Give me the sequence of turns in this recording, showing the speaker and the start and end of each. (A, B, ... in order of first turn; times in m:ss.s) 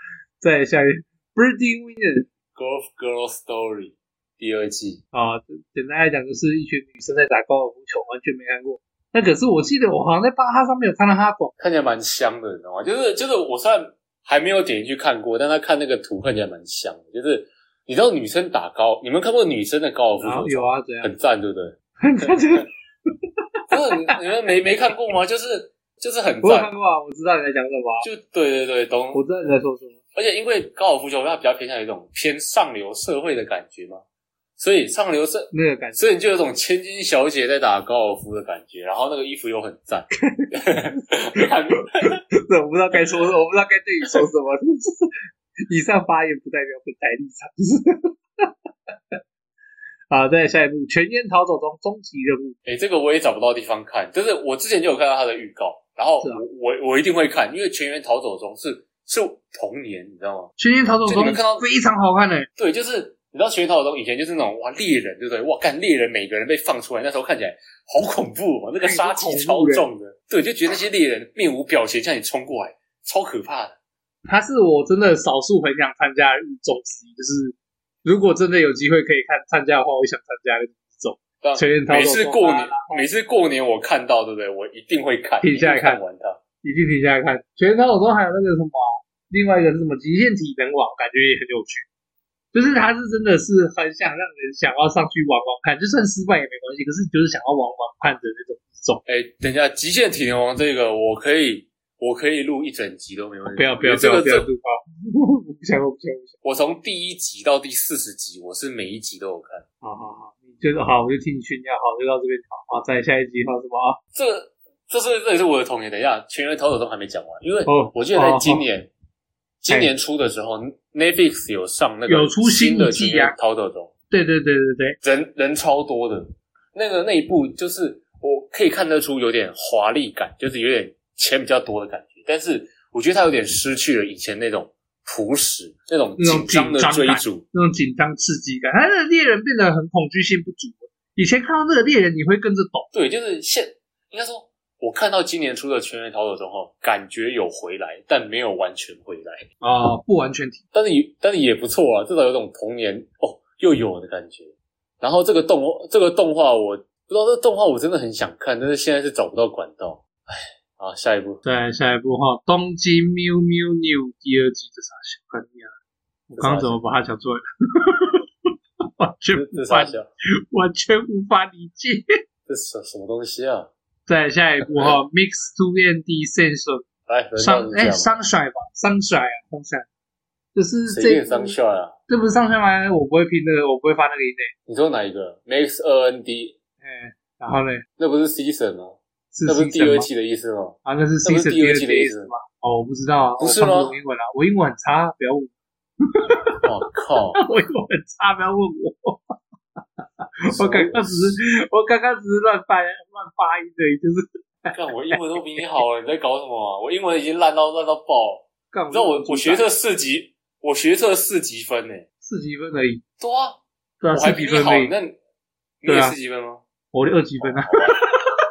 0:00.4-0:02.3 A
0:02.5-0:05.0 B
0:05.1-0:11.5 A
0:11.6-0:22.6 B
0:20.2-0:21.1 A
0:22.0-0:22.7 A
0:23.7-0:26.7 B
0:26.4-0:28.1 A
0:28.0-0:29.2 B
0:29.1-0:30.0 A
0:30.1-0:34.0 B
0:34.6-0:42.2 B
0:35.5-0:36.0 A
0:40.2-0:41.4 A
0:42.0-0:45.1 A
0:45.7-0:49.2 A
0:50.1-0:52.6 A
0:52.6-1:00.5 B
1:00.6-1:02.5 A
1:01.0-1:01.6 B
1:02.6-1:13.8 B
1:08.8-1:09.8 A
1:14.2-1:23.1 A
1:21.4-1:26.4 B
1:25.4-1:26.0 A
1:26.6-1:31.8 A
1:32.5-1:39.0 A
1:39.0-1:44.5 B
1:43.5-1:46.3 A
1:46.4-1:49.6 B
1:49.8-1:54.0 A
1:54.1-1:58.9 B
1:57.7-1:58.6 A
1:59.6-2:03.9 B
2:02.1-2:03.3 A
2:04.1-2:05.0 A
2:05.0-2:17.4 B
2:16.2-2:22.9 A
2:22.9-2:29.5 B
2:29.6-2:30.6 A
2:30.7-2:41.4 B
2:41.4-2:45.7 A
2:46.3-2:48.2 A
2:46.4-2:46.8 B
2:49.0-2:50.0 A
2:49.3-2:50.1 B
2:50.5-2:52.0 A
2:52.5-2:53.7 B
2:54.1-2:56.8 A
2:57.1-2:58.1 B
2:57.4-2:59.9 A
3:00.5-3:01.5 A
3:00.9-3:01.9 B
3:02.1-3:04.5 A
3:04.7-3:06.6 B
3:06.8-3:07.8 A
3:08.0-3:12.3 B
3:09.3-3:10.1 A
3:10.8-3:15.5 A
3:13.4-3:14.0 B
3:16.0-3:16.6 A
3:16.6-3:17.4 B
3:17.4-3:19.3 A
3:20.0-3:25.2 A
3:20.5-3:21.3 B
3:24.7-3:32.0 B
3:28.7-3:29.6 A
3:32.2-3:33.0 A
3:33.2-3:33.6 B
3:34.0-3:34.9 A
3:34.1-3:35.2 B
3:35.8-3:36.6 B
3:35.8-3:36.2 A
3:36.9-3:38.3 A
3:37.4-3:38.0 B